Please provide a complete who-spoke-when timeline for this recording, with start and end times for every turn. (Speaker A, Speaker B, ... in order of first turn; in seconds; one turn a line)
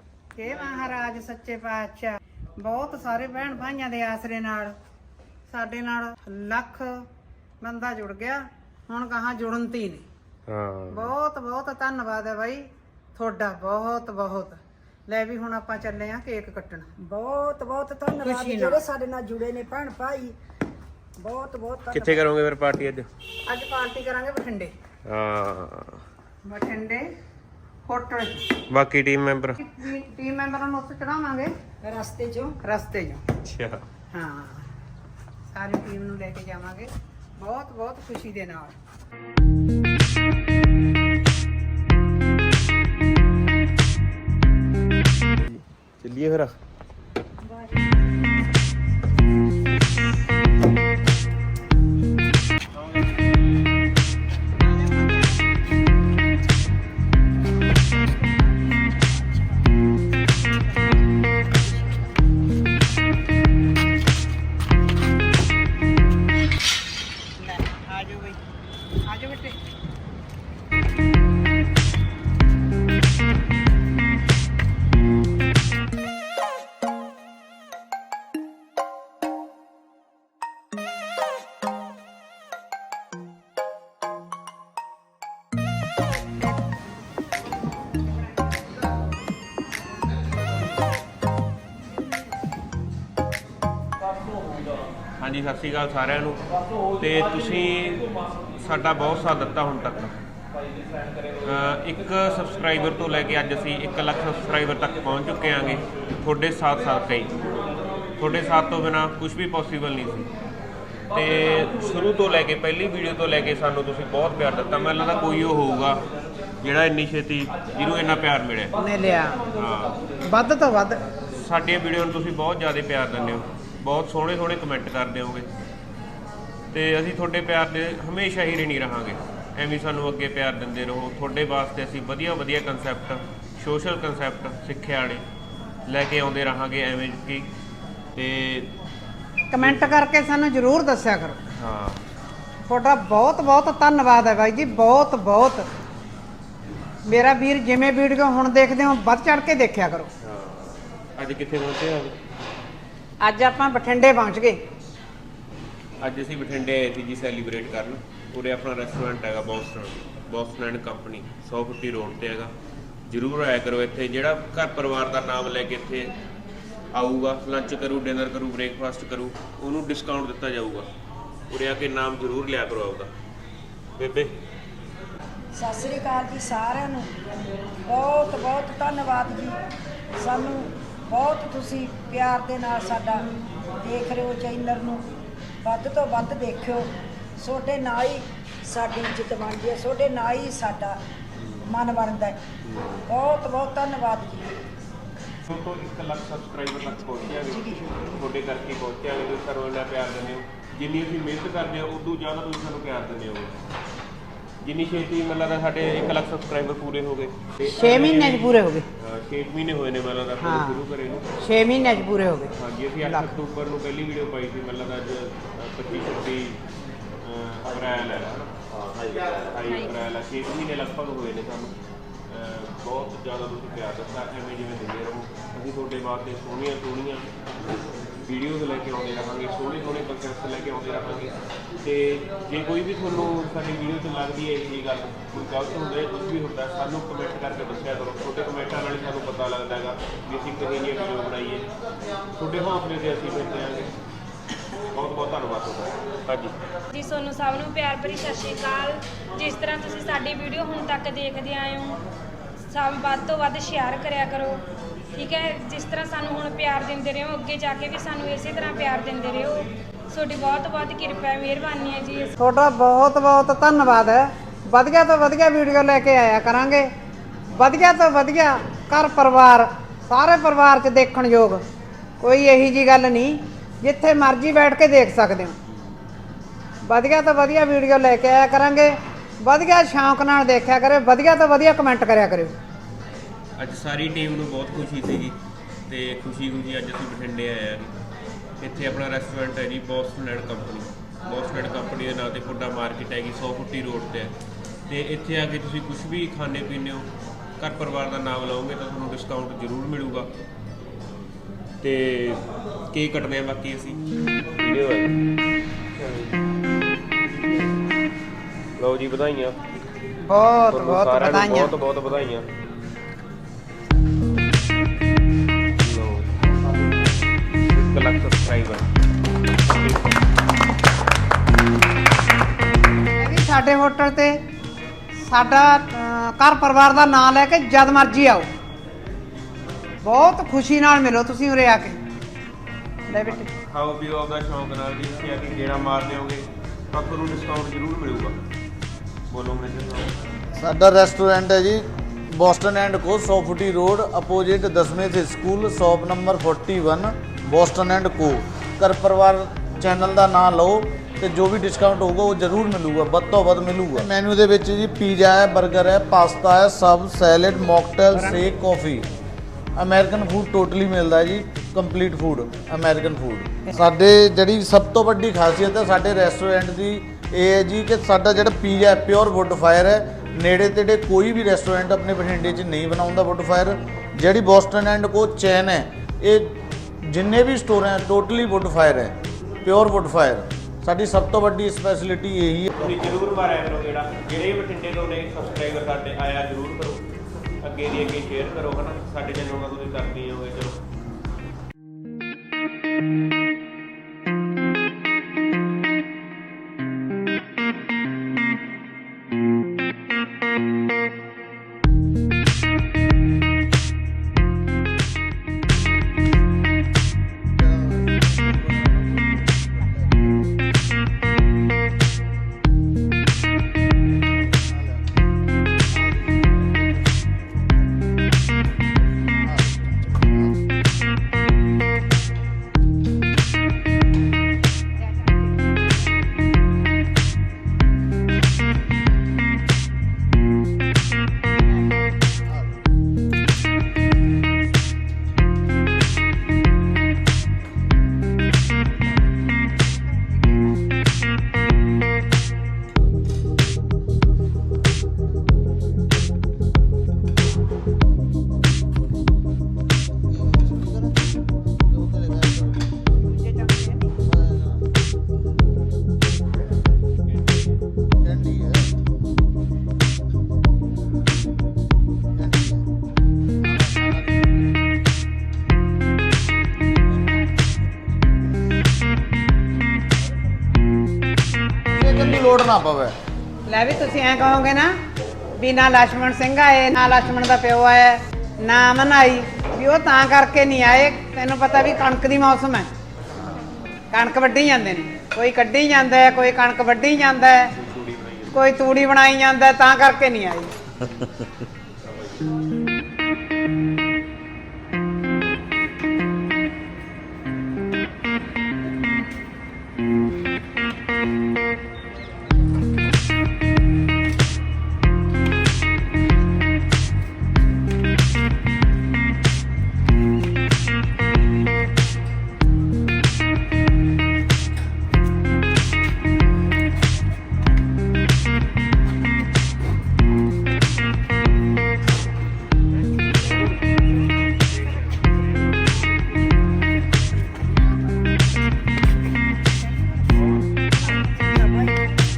Speaker A: 0.3-4.7
Speaker A: 5.5-6.9
Speaker A: 7.6-10.1
Speaker B: 10.5-11.1
Speaker A: 10.9-16.9
Speaker C: 17.0-20.4
Speaker A: 18.2-18.8
Speaker C: 21.2-22.2
Speaker B: 21.9-23.1
Speaker A: 23.5-24.7
Speaker B: 25.1-26.0
Speaker A: 26.4-27.1
Speaker A: 27.9-28.5
Speaker B: 28.7-29.6
Speaker A: 29.6-31.5
Speaker C: 31.8-32.5
Speaker A: 32.6-33.2
Speaker B: 33.4-33.8
Speaker A: 34.1-34.6
Speaker A: 35.5-38.8
Speaker B: 45.4-46.5
Speaker B: 52.8-53.2
Speaker A: 67.4-68.4
Speaker A: 69.0-69.6
Speaker B: 95.2-96.4
Speaker B: 97.0-100.1
Speaker B: 101.4-107.5
Speaker B: 108.2-110.3
Speaker B: 111.1-116.0
Speaker B: 116.6-118.7
Speaker A: 118.8-119.4
Speaker B: 119.5-120.0
Speaker A: 120.2-121.0
Speaker B: 121.3-125.5
Speaker B: 126.7-135.2
Speaker B: 135.8-137.5
Speaker B: 138.2-138.7
Speaker A: 139.5-141.4
Speaker B: 139.6-140.0
Speaker B: 141.5-142.0
Speaker A: 142.7-145.6
Speaker A: 147.1-150.1
Speaker B: 150.2-152.1
Speaker A: 153.2-154.6
Speaker B: 156.0-162.5
Speaker B: 163.1-166.1
Speaker B: 166.9-170.9
Speaker B: 171.5-173.1
Speaker B: 174.0-174.3
Speaker C: 175.5-177.1
Speaker C: 177.8-179.6
Speaker C: 180.2-183.2
Speaker C: 183.8-185.0
Speaker C: 185.6-191.0
Speaker C: 191.6-192.4
Speaker B: 192.6-193.0
Speaker C: 193.0-194.5
Speaker B: 195.4-203.5
Speaker C: 197.3-198.1
Speaker B: 204.6-211.3
Speaker A: 207.6-208.8
Speaker A: 210.4-210.8
Speaker A: 211.4-212.5
Speaker B: 212.6-216.6
Speaker A: 213.0-213.3
Speaker B: 217.2-218.5
Speaker B: 219.1-221.7
Speaker B: 222.3-227.3
Speaker B: 228.2-241.6
Speaker B: 242.3-243.9
Speaker B: 244.9-246.5
Speaker D: 246.9-252.0
Speaker D: 252.7-254.6
Speaker D: 255.1-262.3
Speaker A: 262.4-266.9
Speaker A: 267.5-271.6
Speaker A: 272.2-275.5
Speaker A: 276.8-282.5
Speaker B: 283.6-285.4
Speaker B: 285.9-287.9
Speaker B: 288.6-294.3
Speaker B: 294.9-300.3
Speaker B: 301.8-304.0
Speaker B: 304.6-305.2
Speaker B: 305.9-306.4
Speaker B: 308.8-309.6
Speaker A: 310.2-311.7
Speaker B: 310.7-312.5
Speaker B: 315.8-316.3
Speaker B: 317.7-318.9
Speaker B: 319.5-320.2
Speaker A: 323.2-324.4
Speaker A: 325.2-328.5
Speaker A: 330.0-332.0
Speaker A: 333.1-333.5
Speaker B: 333.2-338.4
Speaker B: 339.3-340.1
Speaker E: 340.5-359.1
Speaker E: 359.8-383.1
Speaker B: 382.7-387.1
Speaker B: 387.6-390.8
Speaker A: 425.2-425.7
Speaker A: 439.9-440.6
Speaker A: 453.2-454.1
Speaker E: 458.3-458.8
Speaker E: 471.9-473.1
Speaker A: 473.7-474.9
Speaker A: 475.6-482.9
Speaker A: 484.1-487.7
Speaker B: 487.7-488.6
Speaker A: 488.5-490.7
Speaker C: 531.0-532.0